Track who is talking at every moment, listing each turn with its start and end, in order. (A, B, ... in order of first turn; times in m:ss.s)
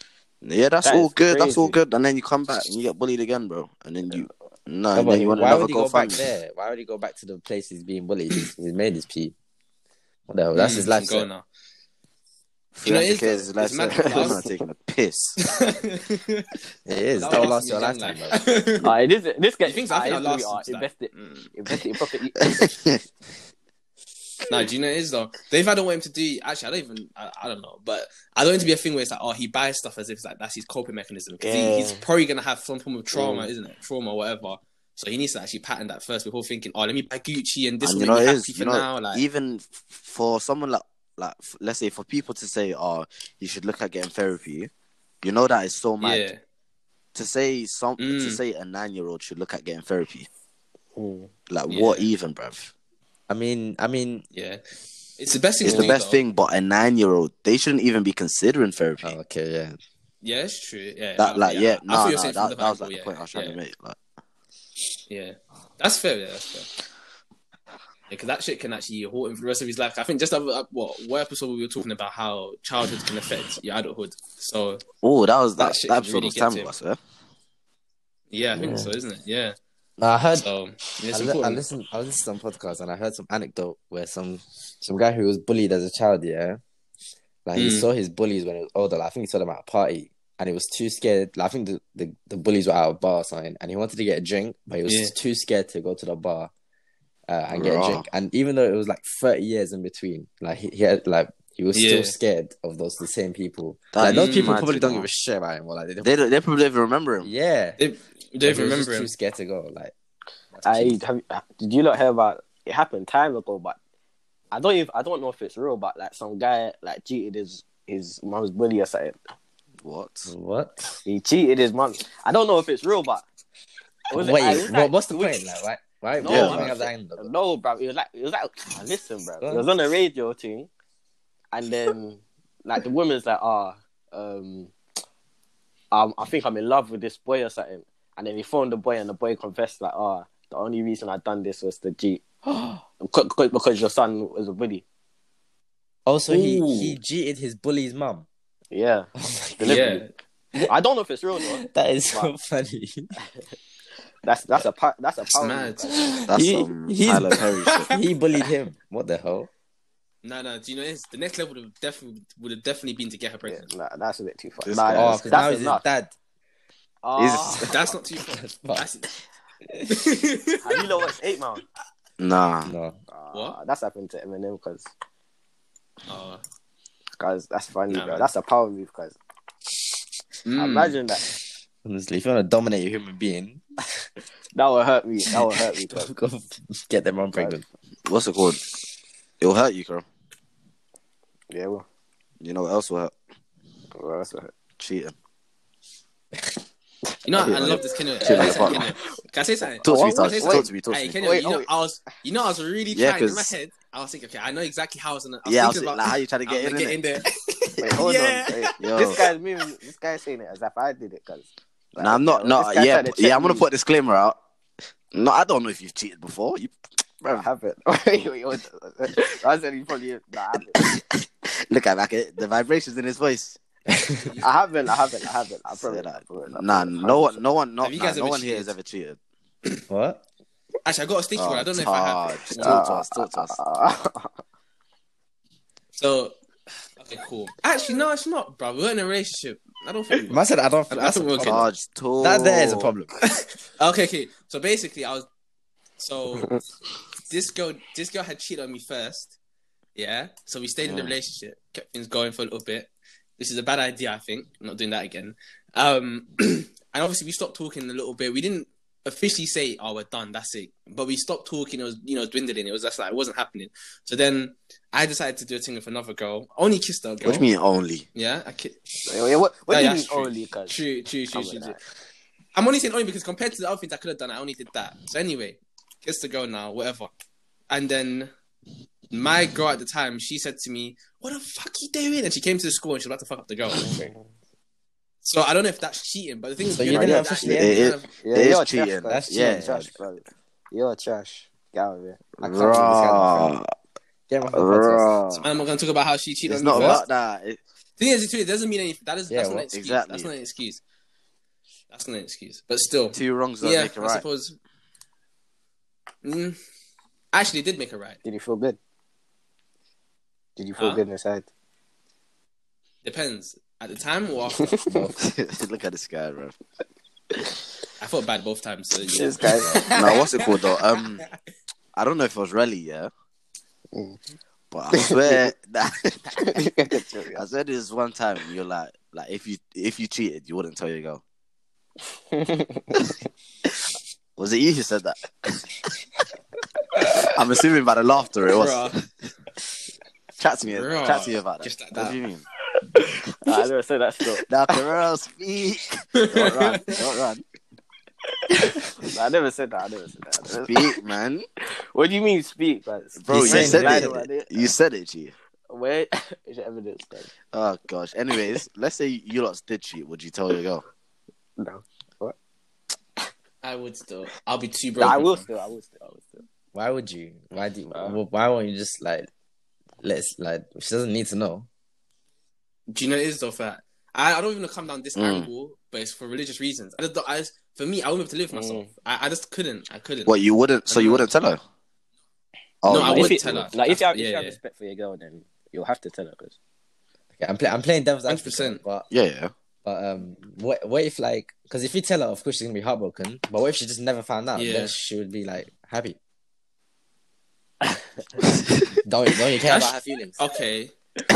0:00.4-0:06.2 A
0:00.8-0:01.8 B
0:04.9-0:09.3 C
0:10.3-0:11.3 C
0:10.5-0:11.4 D
0:12.8-0:15.4 A
0:12.8-0:14.4 D
0:14.0-0:14.5 B
0:15.4-0:16.5 D
0:16.9-0:18.4 C
0:17.2-0:18.9 D
0:18.8-0:22.7 B
0:19.6-0:21.5 D
0:22.4-0:23.0 A
0:24.5-0:39.2 D
0:31.4-0:32.0 B
0:33.1-0:33.5 B
0:37.8-0:44.7 A
0:45.2-0:46.2 A
0:46.0-0:46.4 D
0:47.2-0:50.3 A
0:48.0-0:48.4 D
0:51.0-0:51.3 B
0:51.5-0:52.7 A
0:51.7-0:52.1 D
0:53.3-0:54.2 C
0:54.3-0:54.6 D
0:55.2-0:56.2 D
0:55.6-0:59.2 A
0:55.7-0:55.9 B
0:59.0-0:59.8 C
1:00.2-1:03.6 D
1:01.2-1:04.0 A
1:05.1-1:06.7 D
1:08.1-1:14.8 D
1:15.0-1:17.0 A
1:15.6-1:16.7 D
1:18.3-1:19.6 D
1:18.6-1:18.9 C
1:20.0-1:20.5 C
1:20.3-1:21.6 D
1:21.1-1:26.6 C
1:27.5-1:36.5 C
1:27.6-1:27.9 D
1:34.9-1:35.1 D
1:37.3-1:46.1 C
1:37.5-1:38.0 A
1:41.7-1:42.1 D
1:43.9-1:45.1 A
1:44.0-1:44.6 D
1:46.0-1:47.3 A
1:47.2-1:47.8 C
1:47.8-1:49.1 D
1:48.4-1:49.9 C
1:50.5-1:51.0 C
1:50.6-1:53.8 B
1:54.5-1:59.2 B
1:59.8-2:00.3 A
2:00.3-2:01.0 C
2:01.0-2:03.2 B
2:04.1-2:05.4 B
2:04.1-2:07.3 C
2:06.2-2:10.7 B
2:06.2-2:06.7 D
2:06.3-2:06.7 A
2:09.4-2:09.7 C
2:11.5-2:14.7 B
2:15.9-2:22.2 B
2:22.5-2:22.8 C
2:23.0-2:24.8 B
2:26.1-2:28.3 C
2:26.3-2:27.0 D
2:28.7-2:30.0 B
2:29.2-2:30.0 C
2:29.6-2:30.1 D
2:30.7-2:32.3 B
2:31.6-2:33.1 C
2:34.2-2:36.1 B
2:35.4-2:36.1 D
2:36.2-2:39.5 C
2:36.3-2:37.9 A
2:37.7-2:38.0 D
2:40.2-2:43.7 D
2:43.5-2:45.8 B
2:44.6-2:45.4 A
2:44.9-2:46.1 C
2:47.0-2:47.8 B
2:47.2-2:47.8 A
2:47.7-2:49.1 D
2:48.3-2:48.9 C
2:49.9-2:50.8 D
2:50.6-2:51.6 B
2:52.2-2:52.7 A
2:52.6-2:53.0 C
2:53.1-2:54.9 B
2:56.1-2:56.4 D
2:57.2-2:59.2 B
2:57.9-2:58.3 D
3:00.5-3:01.0 D
3:00.6-3:01.2 B
3:01.8-3:03.6 C
3:04.6-3:06.1 B
3:05.9-3:07.6 C
3:08.1-3:08.6 A
3:09.4-3:10.0 A
3:11.5-3:11.8 B
3:12.4-3:13.2 A
3:14.0-3:14.5 B
3:14.8-3:15.1 A
3:17.3-3:29.2 D
3:17.4-3:18.8 A
3:18.2-3:18.9 B
3:19.8-3:21.7 B
3:19.8-3:21.2 A
3:22.9-3:23.5 A
3:25.5-3:27.0 A
3:27.8-3:33.6 B
3:28.8-3:29.2 A
3:32.0-3:34.4 A
3:35.1-3:37.5 A
3:37.3-3:40.8 B
3:40.8-3:43.6 A
3:43.9-3:44.3 C
3:44.2-3:44.5 D
3:44.4-3:47.4 B
3:45.7-3:49.2 A
3:47.8-3:48.7 D
3:49.9-3:50.2 C
3:50.8-3:52.8 D
3:51.4-3:53.6 A
3:52.6-3:54.3 B
3:56.0-3:56.4 D
3:57.0-4:01.6 D
4:00.3-4:01.7 C
4:01.4-4:03.0 A
4:02.2-4:03.1 C
4:03.3-4:05.3 D
4:06.0-4:06.5 D
4:07.3-4:09.4 D
4:10.0-4:27.5 D
4:10.8-4:11.2 A
4:27.2-4:28.0 A
4:28.2-4:28.8 D
4:29.1-4:30.8 B
4:29.7-4:31.8 D
4:31.3-4:31.8 B
4:32.6-4:37.1 D
4:37.7-4:38.3 D
4:39.1-4:43.9 D
4:43.8-4:44.3 B
4:45.2-4:48.1 D
4:46.7-4:47.8 C
4:47.4-4:49.8 A
4:48.2-4:52.2 B
4:49.1-4:49.9 C
4:52.4-4:53.6 C
4:52.4-4:53.7 A
4:54.3-4:55.2 C
4:54.5-4:55.5 A
4:55.3-4:57.0 D
4:56.5-4:57.6 A
4:56.7-4:57.0 C
4:58.0-5:00.8 D
4:59.3-4:59.7 C
4:59.7-5:00.3 A
5:01.9-5:04.6 D
5:03.1-5:04.2 A
5:06.2-5:06.6 D
5:07.3-5:08.2 D
5:08.2-5:08.8 B
5:10.6-5:11.5 B
5:10.8-5:11.0 D
5:13.0-5:14.8 D
5:14.9-5:15.2 C
5:15.2-5:16.6 A
5:18.0-5:20.8 D
5:19.1-5:19.9 B
5:19.6-5:19.9 C
5:19.9-5:21.3 A
5:22.0-5:23.1 A
5:23.9-5:24.2 B
5:24.7-5:26.6 A
5:24.9-5:25.4 B
5:26.4-5:27.4 B
5:27.4-5:31.2 A
5:32.3-5:33.1 B
5:34.4-5:35.6 A
5:37.1-5:39.0 A
5:38.5-5:39.0 D
5:40.4-5:42.4 A
5:40.7-5:42.2 D
5:43.4-5:44.5 B
5:44.4-5:47.4 A
5:46.2-5:47.0 D
5:48.5-5:51.0 B
5:50.6-5:51.5 A
5:51.8-5:54.7 B
5:53.2-5:55.3 A
5:53.3-5:54.2 C
5:55.7-5:57.3 B
5:57.5-6:00.8 A
6:01.6-6:02.4 B
6:03.6-6:05.5 D
6:05.0-6:06.4 B
6:06.7-6:09.3 C
6:10.0-6:11.7 C
6:12.9-6:20.4 D
6:15.2-6:15.5 A
6:18.5-6:18.9 B
6:20.3-6:21.6 A
6:20.9-6:21.3 D
6:22.8-6:23.7 A
6:22.9-6:24.6 D
6:23.0-6:26.6 B
6:27.4-6:29.1 C
6:28.3-6:28.8 D
6:29.1-6:29.5 A
6:29.8-6:36.2 C
6:34.6-6:34.9 D
6:39.0-6:40.4 C
6:39.7-6:40.9 D